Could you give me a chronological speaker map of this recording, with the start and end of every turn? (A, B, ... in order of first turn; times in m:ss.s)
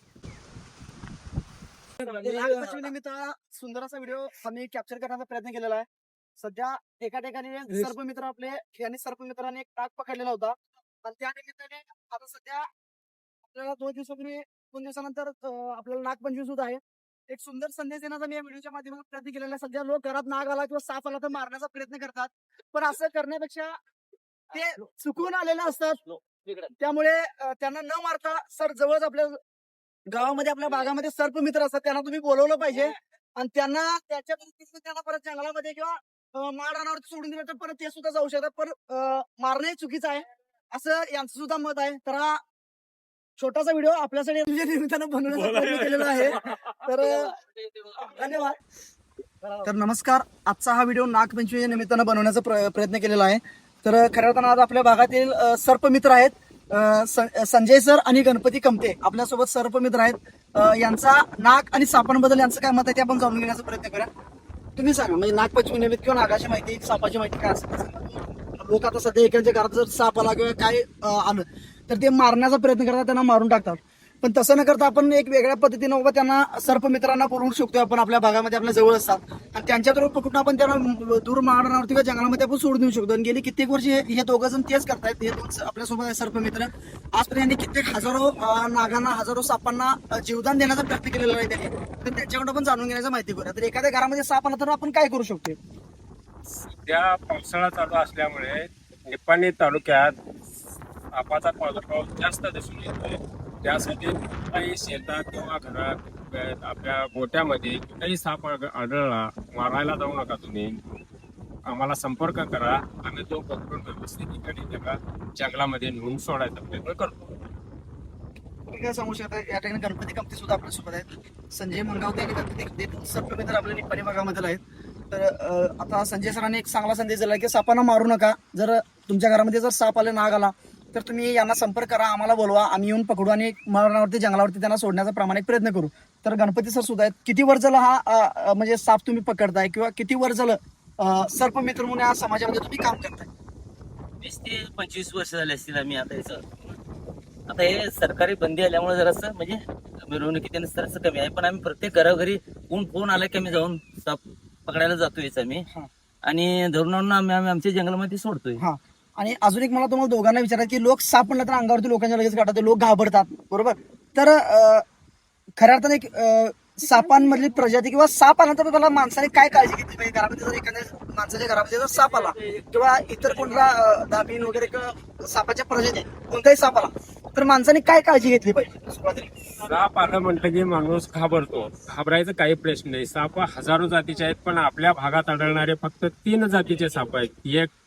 0:02.0-0:12.7 A
0:13.5-0:23.8 A
0:24.5-0:26.0 A
0:26.0-0:26.7 B
0:26.8-0:29.4 A
0:30.1-0:42.4 A
0:43.4-0:47.3 A
0:47.3-0:48.2 B
0:48.0-0:48.6 A
0:49.6-1:04.1 A
1:04.8-1:35.6 A
1:36.5-1:40.2 C
1:41.1-1:50.8 C
1:51.7-1:57.2 C
1:58.7-2:23.3 A
2:24.2-2:26.4 B
2:27.5-2:35.7 B
2:36.2-2:38.6 B
2:38.6-2:44.8 A
2:45.6-2:59.3 A
2:59.6-3:07.7 C